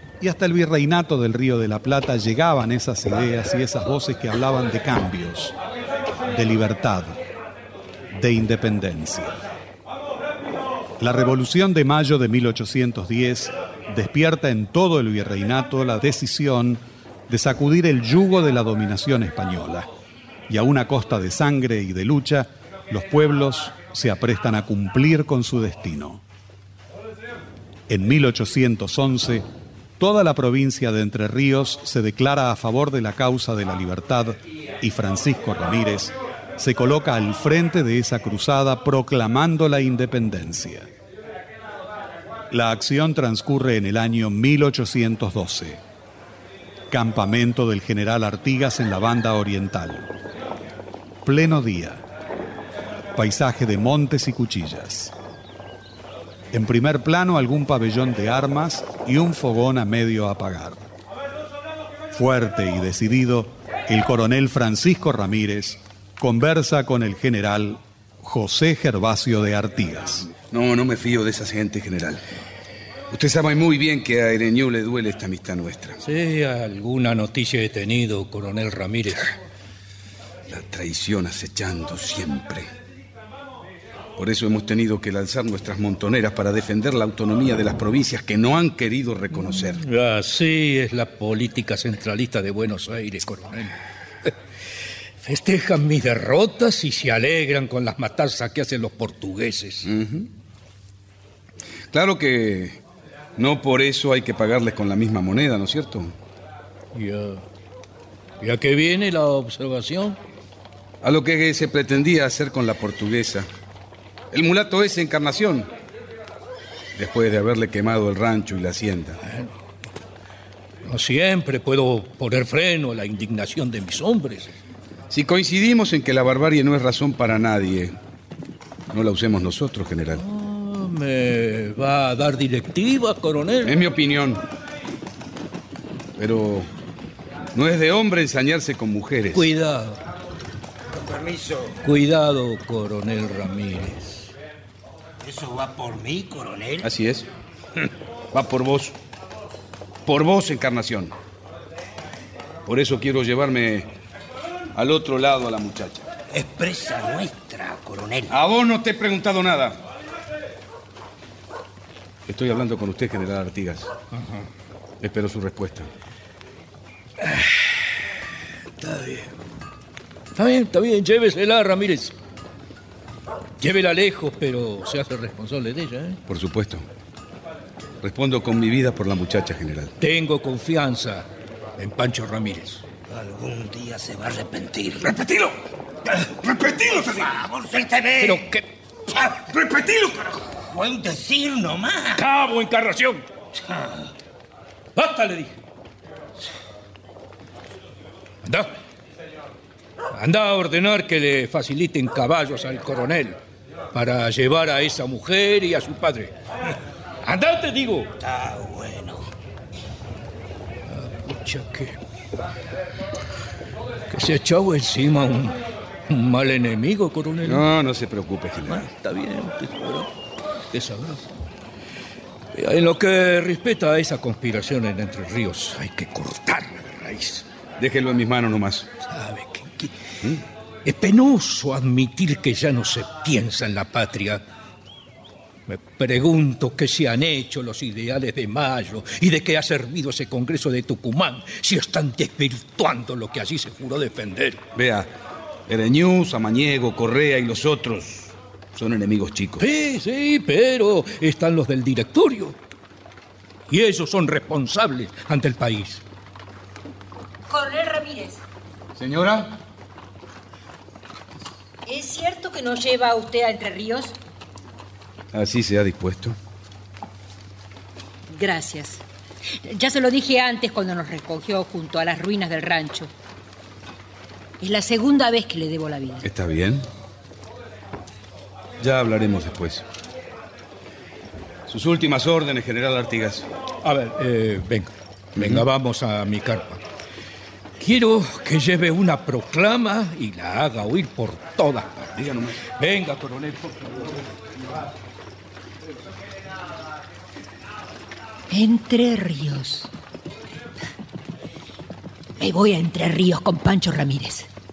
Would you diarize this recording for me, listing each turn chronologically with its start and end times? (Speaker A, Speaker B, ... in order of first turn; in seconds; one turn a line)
Speaker A: 0.2-5.6
Speaker A: 6.3-7.2
Speaker A: 8.1-9.4
Speaker A: 11.0-19.9
Speaker A: 20.5-26.2
Speaker A: 27.9-29.4
Speaker A: 30.0-40.9
Speaker A: 42.5-45.8
Speaker A: 46.9-50.1
Speaker A: 51.2-52.0
Speaker A: 53.1-55.1
Speaker A: 56.5-60.8
Speaker A: 62.1-70.3
Speaker B: 70.5-72.2
Speaker B: 73.1-76.0
Speaker C: 76.0-79.4
Speaker B: 80.5-82.7
Speaker B: 84.2-89.8
Speaker C: 89.8-93.7
Speaker C: 95.2-99.8
Speaker B: 99.8-100.3
Speaker B: 101.9-102.8
Speaker B: 103.4-106.1
Speaker C: 106.9-107.4
Speaker C: 108.4-110.2
Speaker B: 111.0-113.5
Speaker B: 114.3-115.7
Speaker B: 117.0-119.2
Speaker C: 119.2-119.6
Speaker C: 120.8-124.5
Speaker B: 125.1-128.0
Speaker B: 128.9-130.2
Speaker C: 130.1-133.7
Speaker B: 133.7-134.4
Speaker B: 136.2-136.7
Speaker B: 137.5-139.5
Speaker C: 139.3-140.0
Speaker D: 140.9-141.8
Speaker C: 141.8-144.3
Speaker D: 145.2-146.9
Speaker B: 146.8-147.3
Speaker B: 148.3-148.9
Speaker B: 150.1-151.1
Speaker B: 152.7-153.9
Speaker B: 154.7-156.1
Speaker D: 156.3-158.3
Speaker B: 158.3-159.8
Speaker B: 162.3-163.9
Speaker B: 165.0-165.9
Speaker C: 167.2-167.8
Speaker C: 168.8-169.3
Speaker C: 170.3-172.1
Speaker C: 173.6-176.2
Speaker B: 176.3-176.8
Speaker B: 178.0-179.9
Speaker C: 180.0-182.8
Speaker D: 183.1-185.2
Speaker B: 186.4-186.9
Speaker D: 186.6-188.4
Speaker C: 188.2-188.7
Speaker D: 189.5-192.2
Speaker C: 192.1-193.2
Speaker C: 194.9-195.6
Speaker C: 198.4-198.7
Speaker C: 200.1-203.4
Speaker C: 203.9-206.3
Speaker C: 207.2-208.1
Speaker D: 208.2-209.3
Speaker C: 210.9-212.0
Speaker C: 214.1-215.6
Speaker C: 216.1-217.6
Speaker B: 217.4-218.9
Speaker C: 218.7-220.1
Speaker C: 220.7-221.2
Speaker C: 222.5-227.4
Speaker B: 227.8-228.9
Speaker C: 229.0-230.0
Speaker C: 230.8-234.4
Speaker C: 235.7-244.6
Speaker B: 244.7-245.1
Speaker B: 245.7-249.7
Speaker C: 249.6-252.6
Speaker C: 253.7-256.0
Speaker E: 257.5-258.4
Speaker B: 258.9-259.5
Speaker E: 261.9-264.1
Speaker B: 265.3-266.4
Speaker E: 268.3-269.0
Speaker E: 269.6-273.1
Speaker E: 274.6-276.3
Speaker B: 276.2-276.9
Speaker B: 278.8-279.8
Speaker B: 281.7-283.5
Speaker C: 283.8-286.8
Speaker B: 285.4-285.6
Speaker C: 287.8-292.0
Speaker B: 292.0-292.6
Speaker C: 292.8-294.0
Speaker E: 298.5-299.9
Speaker E: 302.4-304.5